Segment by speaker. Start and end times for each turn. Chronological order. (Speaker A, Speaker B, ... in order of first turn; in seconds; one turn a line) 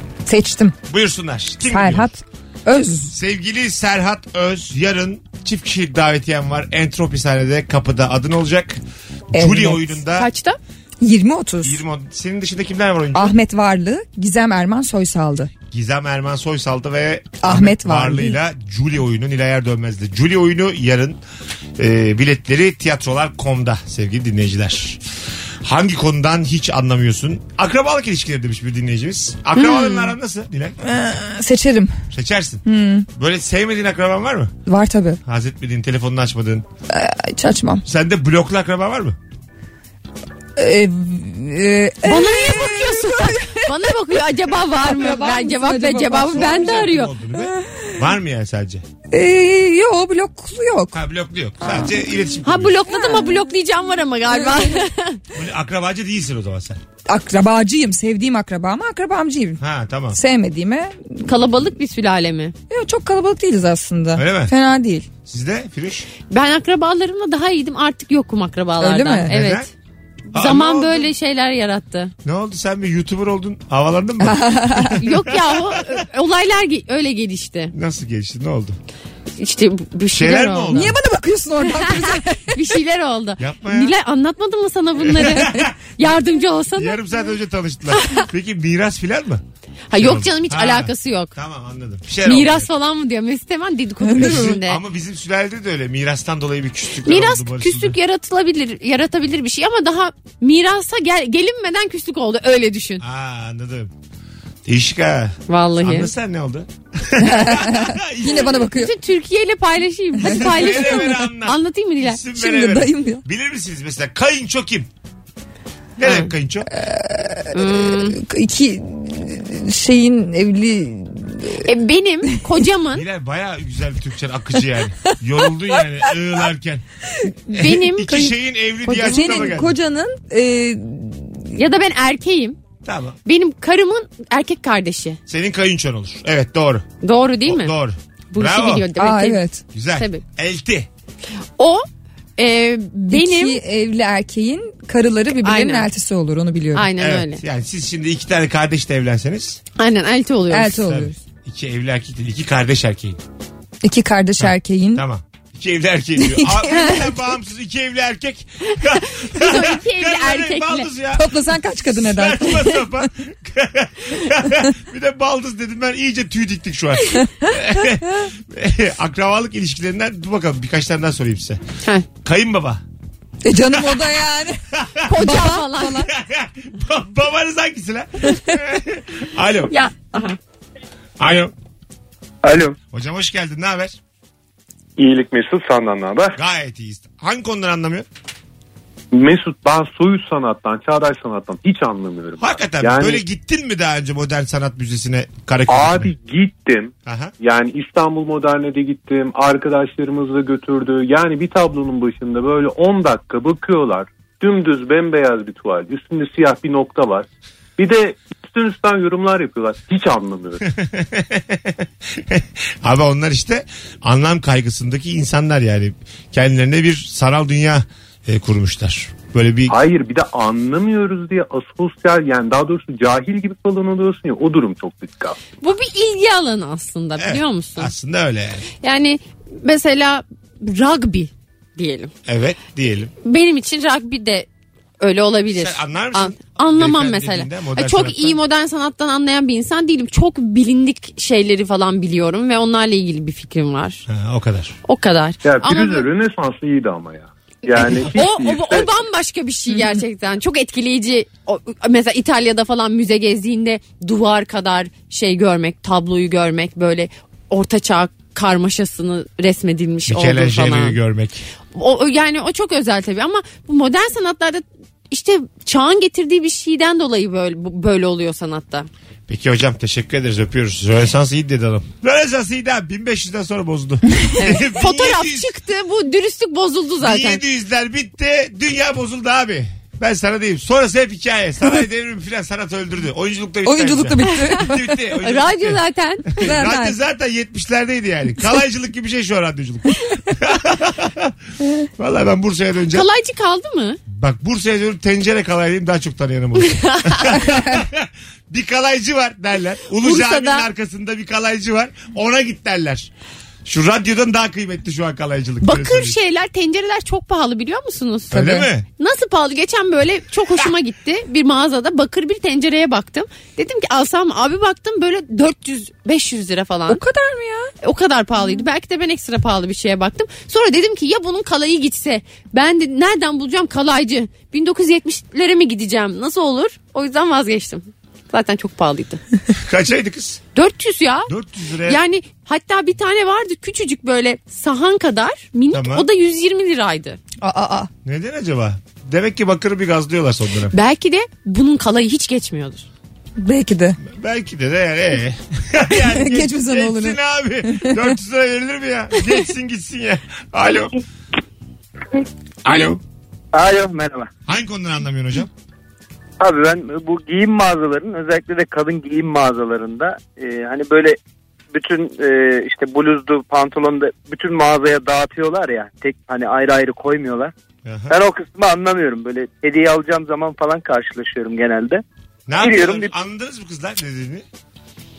Speaker A: 0.3-0.8
Speaker B: 0.9-2.1
Speaker A: 1.7-3.1
Speaker B: 3.1-10.3
Speaker A: 9.3-10.0
Speaker C: 10.2-10.6
Speaker A: 11.0-11.8
Speaker B: 11.6-13.3
Speaker A: 13.2-15.5
Speaker B: 15.7-21.2
Speaker A: 17.4-18.4
Speaker B: 21.8-25.0
Speaker B: 25.6-30.8
Speaker C: 29.6-30.1
Speaker A: 30.8-31.9
Speaker B: 32.1-34.5
Speaker A: 32.7-33.1
Speaker A: 34.7-35.2
Speaker B: 35.3-36.6
Speaker A: 36.9-37.8
Speaker B: 37.8-39.2
Speaker A: 40.6-43.7
Speaker C: 42.0-47.1
Speaker A: 44.8-46.8
Speaker B: 46.3-48.8
Speaker A: 47.4-48.0
Speaker A: 49.1-51.0
Speaker B: 50.9-52.8
Speaker C: 52.5-55.2
Speaker A: 52.9-53.4
Speaker A: 54.4-54.8
Speaker B: 55.3-56.8
Speaker A: 57.1-59.6
Speaker B: 59.6-60.2
Speaker A: 60.1-61.2
Speaker C: 61.2-62.5
Speaker A: 62.7-65.1
Speaker B: 64.1-64.5
Speaker B: 65.2-66.1
Speaker C: 66.3-69.7
Speaker A: 68.8-69.3
Speaker B: 69.3-69.7
Speaker B: 70.3-71.1
Speaker C: 70.3-72.1
Speaker B: 72.2-76.0
Speaker A: 74.2-75.0
Speaker C: 75.0-77.7
Speaker B: 77.7-78.8
Speaker C: 79.4-80.9
Speaker B: 80.1-81.0
Speaker A: 80.7-82.7
Speaker C: 81.7-87.0
Speaker B: 83.4-83.9
Speaker B: 85.0-85.8
Speaker B: 86.8-89.4
Speaker C: 88.0-88.2
Speaker C: 89.9-91.3
Speaker B: 90.0-92.7
Speaker C: 92.2-94.8
Speaker A: 94.1-94.6
Speaker B: 94.2-98.0
Speaker C: 97.0-103.0
Speaker B: 103.0-103.9
Speaker B: 104.7-108.7
Speaker C: 105.5-106.1
Speaker A: 107.2-109.0
Speaker C: 108.7-112.2
Speaker A: 110.2-111.1
Speaker B: 110.2-114.9
Speaker A: 112.3-113.2
Speaker B: 116.0-116.7
Speaker C: 116.0-116.3
Speaker A: 116.7-121.7
Speaker C: 117.5-118.2
Speaker C: 121.6-123.0
Speaker B: 122.9-126.8
Speaker C: 127.5-128.3
Speaker B: 127.5-129.8
Speaker C: 128.9-129.5
Speaker A: 129.0-131.6
Speaker C: 131.6-132.6
Speaker B: 132.8-133.2
Speaker C: 133.3-135.2
Speaker B: 135.3-136.9
Speaker C: 137.0-137.8
Speaker B: 137.5-138.9
Speaker C: 138.3-139.4
Speaker A: 139.0-139.6
Speaker B: 139.7-140.9
Speaker C: 139.9-140.2
Speaker C: 141.6-141.9
Speaker C: 142.4-143.6
Speaker A: 143.1-146.9
Speaker C: 145.4-145.9
Speaker C: 146.8-147.4
Speaker B: 147.0-149.6
Speaker C: 149.8-150.9
Speaker A: 150.5-151.2
Speaker B: 150.9-153.2
Speaker A: 153.8-155.1
Speaker B: 154.4-171.6
Speaker A: 156.2-157.1
Speaker C: 159.2-160.9
Speaker A: 161.1-162.8
Speaker B: 172.2-172.8
Speaker A: 173.4-174.6
Speaker B: 174.7-175.1
Speaker C: 175.1-176.1
Speaker A: 175.2-176.1
Speaker B: 176.1-179.7
Speaker C: 179.7-180.4
Speaker B: 181.2-181.5
Speaker B: 182.9-184.0
Speaker D: 185.0-186.4
Speaker B: 186.4-188.1
Speaker D: 189.1-193.2
Speaker B: 192.4-196.1
Speaker D: 195.7-210.6
Speaker B: 197.1-197.3
Speaker B: 210.7-219.8
Speaker D: 219.7-225.4
Speaker C: 225.6-227.9
Speaker B: 227.2-228.7
Speaker C: 228.8-232.1
Speaker B: 232.3-233.1
Speaker C: 233.2-234.5
Speaker C: 235.0-244.1
Speaker B: 235.5-238.4
Speaker B: 244.1-244.8
Speaker C: 244.9-246.1
Speaker D: 245.4-248.9
Speaker C: 247.7-261.0
Speaker B: 260.1-261.5
Speaker C: 261.7-268.9
Speaker B: 269.3-275.5
Speaker C: 274.4-277.4
Speaker B: 277.0-285.8
Speaker A: 283.6-285.0
Speaker C: 284.3-284.6
Speaker C: 285.2-286.5
Speaker B: 286.3-291.4
Speaker A: 286.4-287.0
Speaker B: 292.0-293.1
Speaker C: 292.9-294.0
Speaker B: 294.1-303.1
Speaker C: 296.6-297.4
Speaker C: 300.0-300.7
Speaker B: 303.6-306.2
Speaker C: 305.6-317.0
Speaker B: 308.3-308.9
Speaker A: 308.4-308.7
Speaker A: 316.9-317.7
Speaker C: 317.8-329.2
Speaker B: 329.5-330.4
Speaker C: 330.6-331.3
Speaker B: 331.3-332.0
Speaker C: 331.9-337.2
Speaker B: 335.7-336.1
Speaker A: 337.4-337.9
Speaker B: 338.1-340.7
Speaker C: 340.7-342.9
Speaker A: 343.4-344.0
Speaker B: 344.0-351.0
Speaker A: 345.9-348.1
Speaker B: 352.6-353.0
Speaker E: 353.5-354.3
Speaker B: 354.5-355.5
Speaker E: 356.4-361.2
Speaker E: 361.7-367.5
Speaker B: 367.9-368.1
Speaker E: 368.1-372.0
Speaker B: 372.5-374.5
Speaker E: 372.6-373.1